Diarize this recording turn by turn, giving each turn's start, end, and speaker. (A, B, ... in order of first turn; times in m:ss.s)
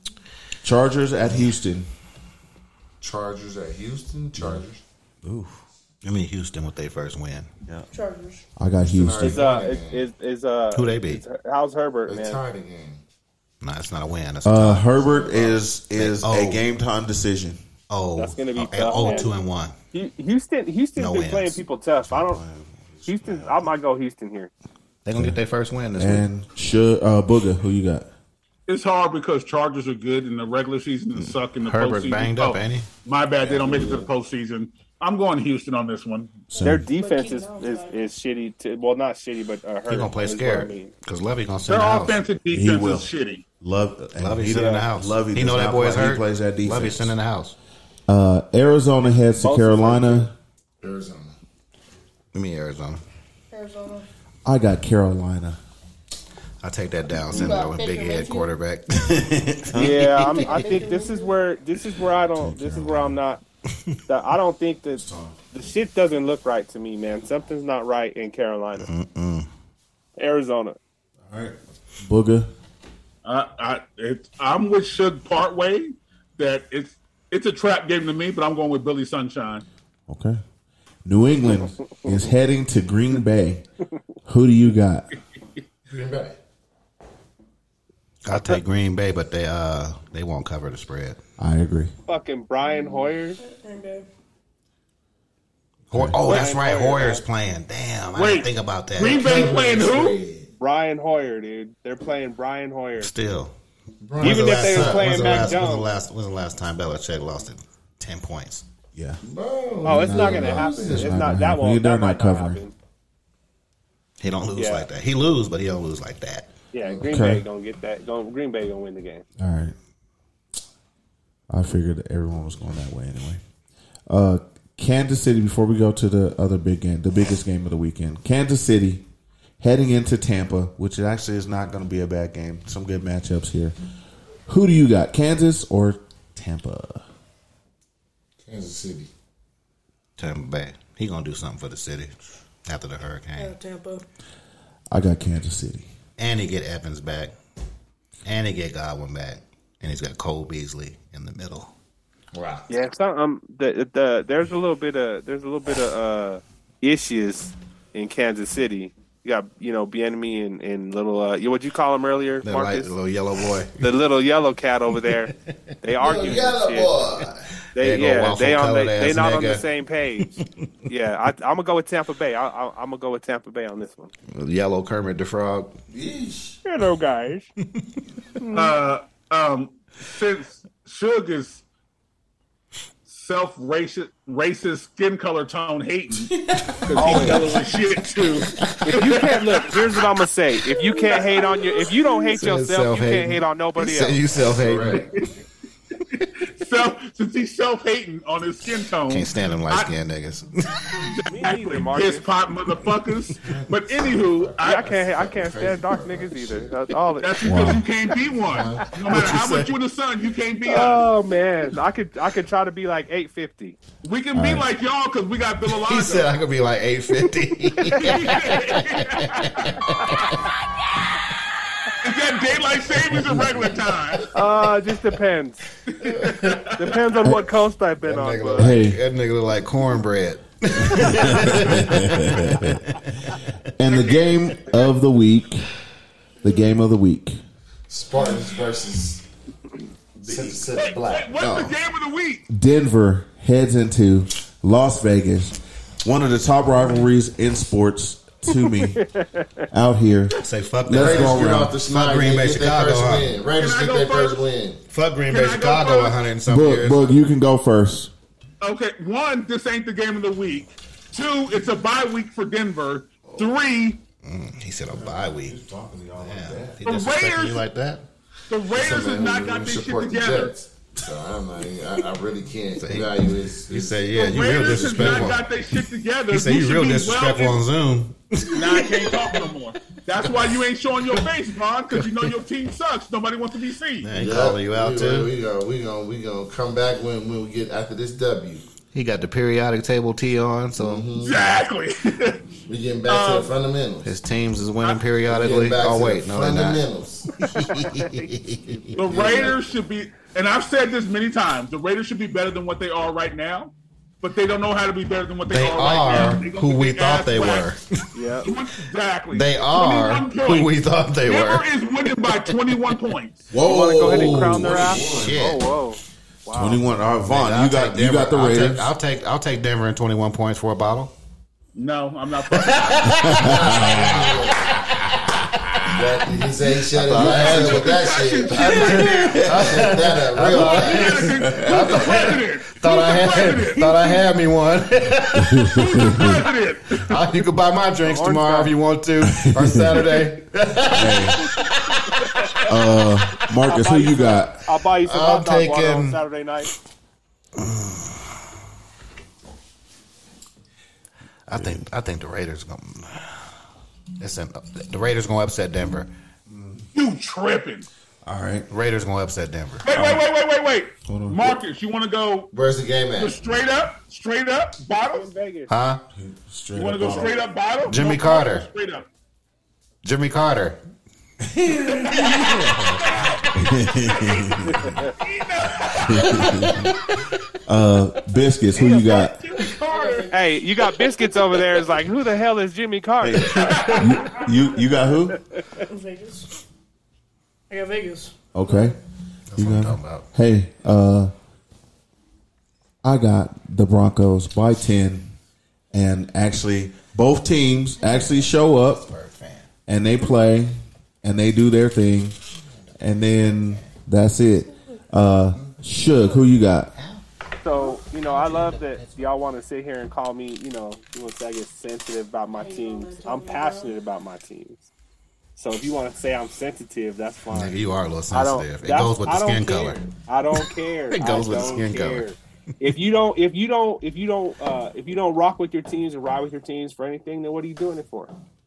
0:00.6-0:01.9 A
0:03.0-0:04.8 B
0:04.4-0:04.6 A
0:05.2-0:05.6 A
0:06.0-0:07.5 C
0:07.9-0:08.4 D
0:08.6-0:09.4 A
0:08.8-0:10.0 B
0:09.2-0:12.4 E
0:10.7-0:11.2 C
0:12.1-0:13.0 B
0:13.6-0:14.9 C
0:14.4-0:17.6 A
0:15.0-0:15.6 B
0:15.9-0:16.6 C
0:17.9-0:19.7 C
0:18.2-0:19.3 E
0:19.0-0:19.3 D
0:19.9-0:22.4 E
0:21.0-0:21.6 C
0:22.1-0:23.6 A
0:23.0-0:24.5 E
0:25.0-0:26.2 C
0:26.0-0:28.1 A
0:28.7-0:36.4 F
0:31.6-0:32.9 C
0:33.4-0:33.9 C
0:36.5-0:36.9 A
0:36.6-0:40.9 E
0:36.9-0:38.0 D
0:39.9-0:42.2 C
0:41.7-0:43.4 F
0:42.5-0:43.1 A
0:43.6-0:47.1 A
0:44.2-0:47.5 C
0:44.5-0:44.8 E
0:48.1-0:50.3 A
0:49.4-0:50.3 E
0:50.8-0:51.3 B
0:52.3-0:53.0 C
0:53.5-0:54.0 D
0:54.4-0:55.6 A
0:56.6-1:00.6 C
0:57.3-0:58.5 D
0:59.7-1:00.0 A
0:59.7-1:03.4 E
1:00.2-1:01.4 D
1:02.3-1:03.2 A
1:04.1-1:08.9 E
1:05.0-1:05.4 A
1:08.8-1:09.5 C
1:10.2-1:10.8 E
1:11.2-1:12.5 A
1:13.2-1:19.6 F
1:20.1-1:20.4 A
1:21.0-1:23.6 A
1:24.2-1:25.1 A
1:25.9-1:26.4 B
1:28.2-1:31.2 C
1:31.4-1:31.9 A
1:32.1-1:33.4 E
1:33.4-1:34.1 D
1:35.9-1:36.4 A
1:35.9-1:39.2 C
1:36.2-1:37.2 E
1:38.1-1:40.2 F
1:39.0-1:40.5 B
1:40.6-1:43.1 E
1:43.0-1:43.5 C
1:44.0-1:45.6 B
1:44.2-1:48.6 C
1:44.2-1:45.9 E
1:48.9-1:49.2 A
1:49.2-1:51.2 B
1:49.8-1:52.7 E
1:49.9-1:52.6 A
1:54.2-1:56.5 C
1:54.5-1:54.8 E
1:56.7-1:59.2 E
1:56.8-1:57.2 B
1:57.0-1:57.4 A
1:59.4-1:59.7 A
2:01.5-2:03.4 A
2:04.1-2:09.0 A
2:09.6-2:13.7 A
2:14.5-2:17.0 A
2:18.4-2:19.1 B
2:20.2-2:22.1 C
2:22.6-2:23.5 C
2:23.4-2:24.0 D
2:24.9-2:25.9 A
2:26.2-2:27.3 C
2:28.2-2:31.7 C
2:32.3-2:32.7 B
2:32.7-2:42.9 E
2:42.4-2:43.8 C
2:43.8-2:46.9 E
2:46.0-2:47.5 B
2:47.7-2:54.1 E
2:47.8-2:49.6 C
2:54.3-2:55.7 C
2:55.9-2:56.6 B
2:56.6-2:57.5 E
2:58.5-3:01.6 F
3:03.1-3:09.7 F
3:06.9-3:07.5 E
3:08.9-3:14.2 E
3:12.3-3:15.1 C
3:14.3-3:15.1 B
3:16.4-3:19.9 F
3:19.1-3:21.0 C
3:21.0-3:24.9 F
3:21.3-3:22.2 E
3:23.4-3:26.8 B
3:24.6-3:27.8 E
3:27.2-3:31.0 F
3:27.4-3:27.8 A
3:28.3-3:29.4 B
3:29.1-3:29.7 C
3:30.6-3:33.8 E
3:34.0-3:36.3 F
3:34.3-3:34.7 A
3:35.6-3:40.4 C
3:37.9-3:39.8 F
3:37.9-3:38.2 E
3:42.0-3:44.3 F
3:44.3-3:45.6 E
3:45.9-3:47.0 F
3:46.7-3:48.7 E
3:48.0-3:48.8 B
3:48.6-3:49.0 A
3:48.6-3:53.4 C
3:51.2-3:52.8 A
3:53.8-3:55.7 A
3:53.9-3:54.3 F
3:56.4-3:57.4 A
3:57.9-3:59.2 B
4:00.2-4:01.4 B
4:00.7-4:02.4 F
4:01.4-4:01.7 A
4:02.5-4:09.0 A
4:08.5-4:09.6 E
4:09.7-4:10.3 A
4:10.4-4:13.4 C
4:10.8-4:11.8 A
4:10.9-4:14.8 B
4:13.6-4:14.4 F
4:14.9-4:17.1 C
4:15.3-4:16.2 F
4:16.5-4:18.1 A
4:18.6-4:24.0 F
4:24.2-4:25.6 C
4:24.9-4:26.8 A
4:26.2-4:28.0 C
4:26.8-4:27.6 F
4:28.5-4:30.5 F
4:28.7-4:35.4 B
4:32.8-4:39.2 C
4:34.1-4:37.6 F
4:38.5-4:44.1 F
4:40.3-4:40.5 C
4:41.9-4:42.3 C
4:44.0-4:45.3 C
4:44.1-4:48.6 B
4:48.9-4:51.1 C
4:50.8-4:51.4 B
4:51.2-4:52.4 F
4:52.7-4:54.1 B
4:53.1-4:53.5 F
4:54.0-4:56.8 C
4:55.3-4:57.3 B
4:57.4-4:58.9 C
4:58.0-4:58.2 E
4:58.9-5:07.7 F
4:59.0-4:59.6 B
5:05.5-5:07.8 C
5:08.1-5:08.5 E
5:08.4-5:13.5 F
5:09.3-5:11.7 C
5:12.3-5:12.6 C
5:13.5-5:15.2 A
5:13.6-5:16.8 E
5:14.0-5:15.3 B
5:15.0-5:15.6 C
5:16.5-5:18.9 A
5:17.3-5:21.1 C
5:21.7-5:23.3 F
5:22.7-5:24.9 C
5:23.1-5:24.2 A
5:23.2-5:24.8 B
5:25.6-5:25.8 C
5:25.9-5:31.3 B
5:26.9-5:35.8 C
5:27.0-5:27.8 A
5:27.3-5:29.4 F
5:28.9-5:29.8 A
5:30.5-5:34.2 F
5:31.4-5:31.8 A
5:35.4-5:36.4 A
5:35.7-5:37.2 F
5:36.9-5:42.7 C
5:38.0-5:38.7 E
5:39.2-5:40.1 A
5:40.9-5:41.4 A
5:42.7-5:44.6 A
5:43.6-5:46.7 E
5:45.0-5:46.2 C
5:51.5-5:53.4 C
5:51.5-5:51.8 A
5:54.2-5:56.1 C
5:56.5-5:56.8 A
5:56.9-5:57.9 F
5:58.2-5:58.7 A
5:58.7-6:00.2 C
5:59.8-6:02.5 F
6:01.0-6:01.6 A
6:02.5-6:03.5 B
6:03.2-6:05.2 F
6:05.1-6:05.7 E
6:05.7-6:06.0 C
6:06.1-6:07.4 A
6:06.7-6:09.1 F
6:07.1-6:07.4 E
6:07.9-6:08.7 C
6:10.0-6:10.8 C
6:11.6-6:12.2 A
6:12.0-6:13.4 F
6:12.4-6:13.0 C
6:13.5-6:14.9 A
6:14.0-6:14.5 F
6:14.7-6:15.1 E
6:15.2-6:16.8 F
6:16.0-6:16.9 A
6:17.7-6:19.4 A
6:18.8-6:20.2 F
6:19.6-6:20.3 D
6:20.3-6:23.9 E
6:23.2-6:25.4 A
6:23.5-6:24.3 F
6:25.9-6:26.5 D
6:27.7-6:28.9 D
6:28.5-6:29.0 A
6:29.5-6:30.2 C
6:29.5-6:31.3 A
6:33.0-6:35.3 A
6:35.9-6:39.1 A
6:38.0-6:39.6 C
6:39.9-6:42.4 A
6:43.0-6:46.9 A
6:46.9-6:47.2 C
6:47.6-6:54.9 E
6:48.1-6:49.2 C
6:52.5-6:54.0 D
6:55.6-6:57.8 E
6:57.5-7:00.0 C
6:58.3-7:08.3 E
7:00.6-7:02.2 C